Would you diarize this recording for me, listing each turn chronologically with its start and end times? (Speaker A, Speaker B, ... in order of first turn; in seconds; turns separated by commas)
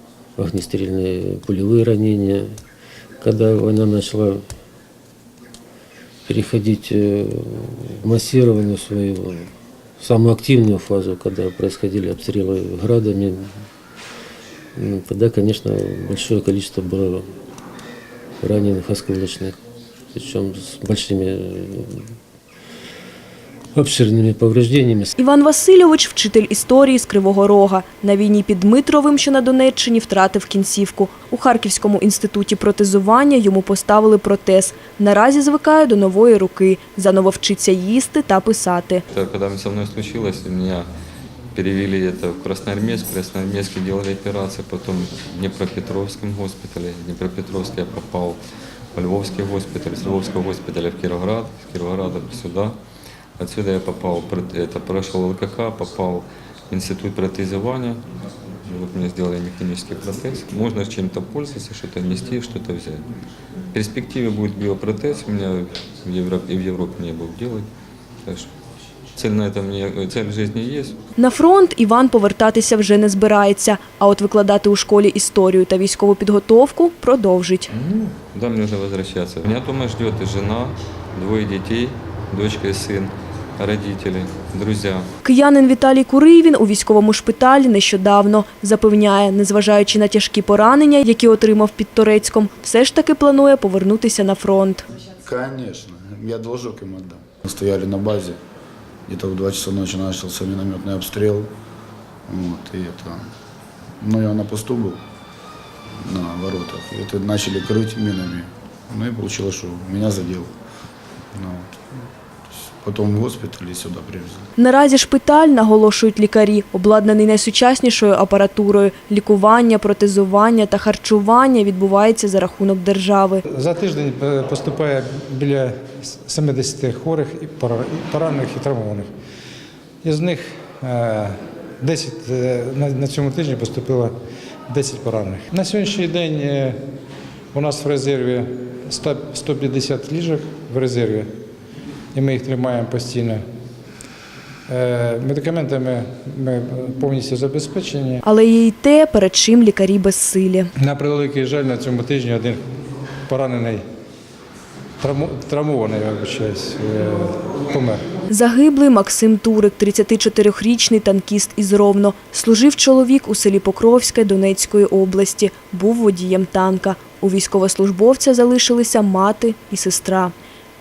Speaker A: 0.4-2.6, Speaker A: 3.2-4.5, Speaker A: 6.3-13.7, Speaker A: 14.8-17.3, Speaker A: 18.4-19.6, Speaker A: 20.1-22.2, Speaker A: 23.7-25.1, Speaker B: 25.2-39.0, Speaker C: 39.1-40.9, Speaker C: 41.5-48.4, Speaker C: 49.0-52.8, Speaker C: 53.4-58.0, Speaker C: 58.6-63.0, Speaker C: 63.7-67.7, Speaker C: 69.2-71.0, Speaker B: 71.2-77.7, Speaker C: 77.7-85.1, Speaker B: 85.2-94.8, Speaker D: 95.2-98.4, Speaker D: 99.1-101.5, Speaker D: 102.3-103.3, Speaker D: 104.0-105.0, Speaker D: 106.0-110.5, Speaker D: 111.3-111.9, Speaker D: 112.5-114.5, Speaker B: 114.6-123.4, Speaker E: 123.5-129.1, Speaker E: 130.0-134.1, Speaker E: 134.7-136.8, Speaker E: 137.5-141.3, Speaker E: 142.1-143.4, Speaker E: 144.7-148.2, Speaker B: 148.2-150.7, Speaker E: 150.8-152.6, Speaker E: 153.3-153.8, Speaker E: 155.0-158.0, Speaker B: 158.3-170.3